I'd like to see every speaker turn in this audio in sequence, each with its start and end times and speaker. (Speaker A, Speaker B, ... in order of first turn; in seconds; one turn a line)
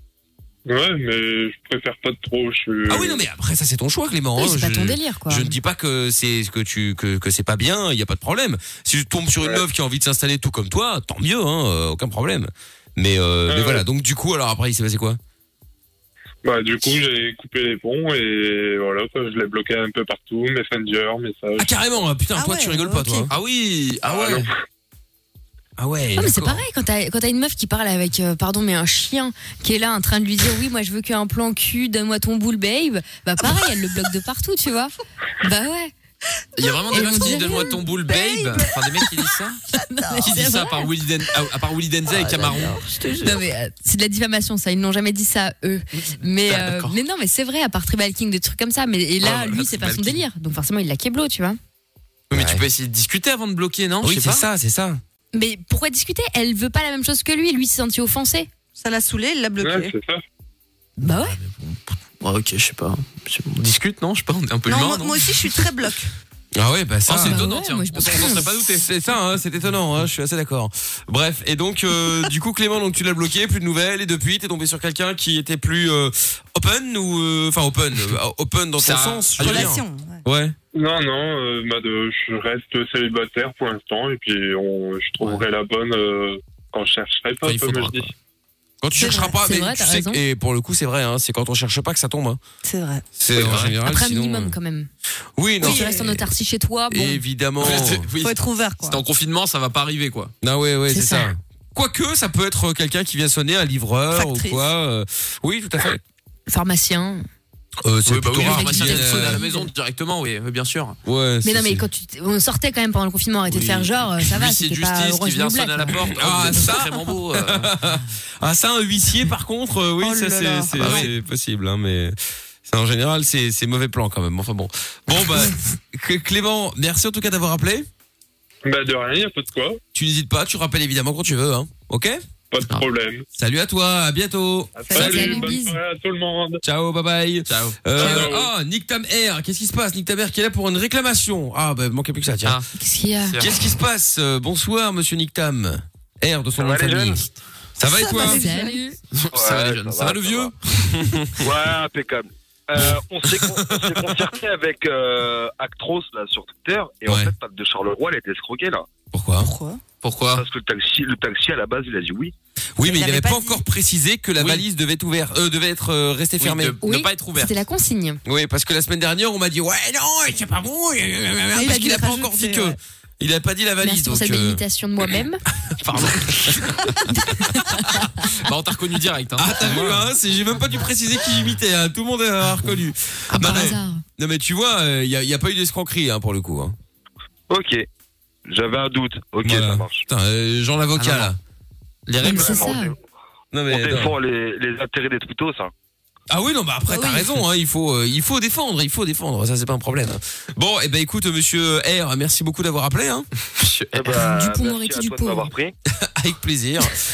Speaker A: 0.7-3.2
Speaker B: 2.9-15.2
Speaker C: 4.4-5.5
Speaker A: 13.5-13.8
Speaker A: 16.4-21.7
Speaker B: 21.6-23.3
Speaker D: 22.4-23.3
Speaker E: 23.3-24.5
Speaker A: 24.1-24.5
Speaker B: 25.8-26.6
Speaker C: 26.2-35.9
Speaker E: 36.6-39.6
Speaker D: 36.9-39.1
Speaker C: 36.9-37.8
Speaker D: 39.7-40.4
Speaker C: 39.9-40.8
Speaker E: 40.2-42.8
Speaker D: 42.1-43.5
Speaker C: 43.2-51.6
Speaker E: 46.0-47.0
Speaker E: 49.2-50.2
Speaker E: 52.3-54.5
Speaker B: 52.3-52.6
Speaker B: 54.0-55.0
Speaker C: 55.3-58.5
Speaker D: 58.8-59.9
Speaker A: 59.6-60.2
Speaker C: 61.0-61.4
Speaker E: 61.1-65.4
Speaker D: 64.7-66.1
Speaker B: 66.6-67.5
Speaker E: 67.1-68.8
Speaker C: 67.2-68.5
Speaker B: 68.6-80.6
Speaker E: 78.8-79.7
Speaker D: 79.4-80.2
Speaker A: 80.7-88.1
Speaker E: 87.4-88.1
Speaker B: 88.8-92.4
Speaker C: 89.0-90.2
Speaker D: 92.6-93.0
Speaker B: 93.2-94.6
Speaker E: 93.3-93.8
Speaker C: 93.8-94.9
Speaker B: 95.4-96.3
Speaker D: 95.6-96.1
Speaker C: 95.6-97.2
Speaker B: 96.9-98.1
Speaker E: 97.6-100.3
Speaker D: 98.2-99.0
Speaker B: 100.4-106.0
Speaker C: 100.9-101.3
Speaker D: 104.1-104.7
Speaker C: 106.5-107.2
Speaker B: 107.8-109.4
Speaker E: 108.1-111.0
Speaker C: 108.4-109.7
Speaker B: 111.0-111.8
Speaker C: 111.4-116.0
Speaker E: 113.5-117.7
Speaker B: 116.1-122.2
Speaker D: 120.0-121.1
Speaker E: 120.8-121.1
Speaker B: 122.7-127.9
Speaker A: 128.7-129.8
Speaker B: 129.9-132.2
Speaker A: 132.5-133.2
Speaker B: 133.4-135.3
Speaker A: 134.8-136.6
Speaker D: 134.9-135.6
Speaker C: 134.9-135.8
Speaker B: 136.6-142.6
Speaker E: 137.5-138.3
Speaker A: 138.0-138.5
Speaker C: 142.8-143.4
Speaker E: 143.2-143.6
Speaker B: 143.4-147.2
Speaker F: 146.6-147.2
Speaker B: 147.8-148.4
Speaker D: 147.9-148.8
Speaker C: 148.1-149.0
Speaker E: 149.1-151.0
Speaker F: 149.3-150.5
Speaker B: 150.9-151.4
Speaker F: 151.4-158.9
Speaker B: 159.1-159.5
Speaker D: 159.4-159.8
Speaker E: 160.0-160.4
Speaker F: 160.3-162.3
Speaker B: 162.8-166.8
Speaker D: 162.8-163.6
Speaker E: 164.4-164.6
Speaker E: 166.4-167.6
Speaker C: 166.8-168.2
Speaker B: 168.2-174.6
Speaker D: 171.5-172.8
Speaker C: 173.8-175.4
Speaker B: 175.8-177.5
Speaker C: 177.2-178.0
Speaker E: 178.3-180.1
Speaker B: 179.4-186.8
Speaker E: 183.3-183.8
Speaker C: 183.4-184.0
Speaker F: 187.5-187.9
Speaker F: 188.5-190.1
Speaker B: 189.4-191.4
Speaker E: 191.0-191.3
Speaker E: 192.1-192.8
Speaker C: 192.2-192.9
Speaker F: 192.2-192.9
Speaker B: 193.5-194.1
Speaker F: 193.7-195.7
Speaker B: 196.3-203.3
Speaker E: 203.6-204.1
Speaker F: 203.9-205.7
Speaker C: 204.1-205.5
Speaker B: 206.0-207.0